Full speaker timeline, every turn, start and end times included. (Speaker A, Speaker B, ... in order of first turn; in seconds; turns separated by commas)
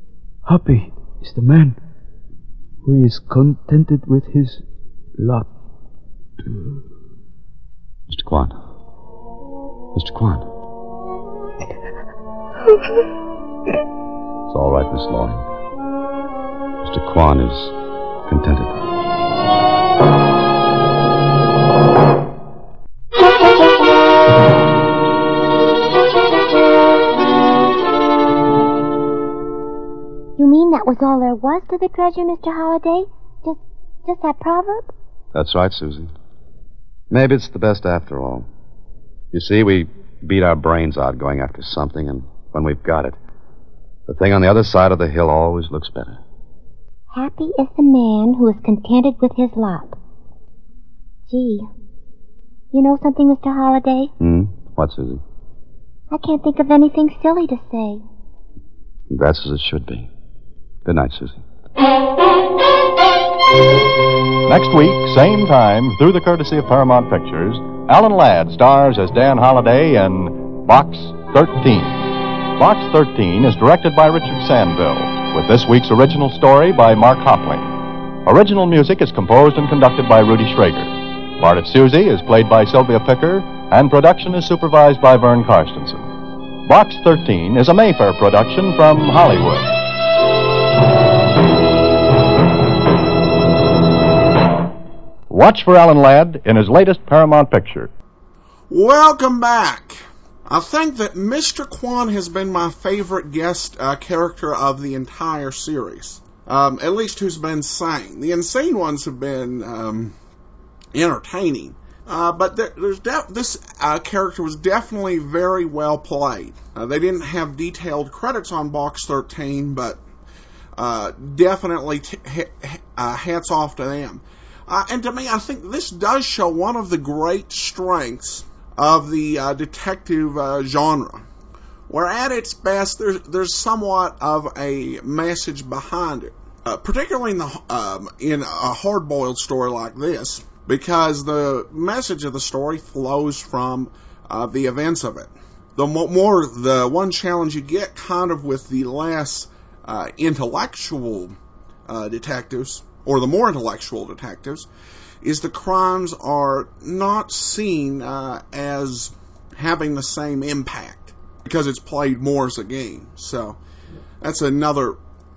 Speaker A: 0.4-1.8, Speaker A: 2.8-4.6, Speaker A: 5.2-5.5, Speaker A: 6.5-6.8, Speaker B: 8.1-8.5, Speaker B: 9.9-10.4, Speaker B: 14.5-15.4, Speaker B: 16.8-17.7, Speaker B: 18.3-18.8, Speaker C: 30.4-34.9, Speaker B: 35.3-36.1, Speaker B: 37.1-38.5, Speaker B: 39.3-43.2, Speaker B: 44.1-46.2, Speaker C: 47.1-50.0, Speaker C: 51.3-51.7, Speaker C: 52.7-54.1, Speaker B: 54.2-55.2, Speaker C: 56.1-58.0, Speaker B: 59.1-60.1, Speaker B: 60.8-61.4, Speaker D: 64.5-86.1, Speaker D: 86.6-89.8, Speaker D: 95.3-97.9, Speaker E: 98.7-110.1, Speaker E: 110.9-120.0, Speaker E: 120.8-131.2, Speaker E: 131.9-151.3, Speaker E: 151.9-154.7, Speaker E: 155.2-163.6, Speaker E: 164.2-165.0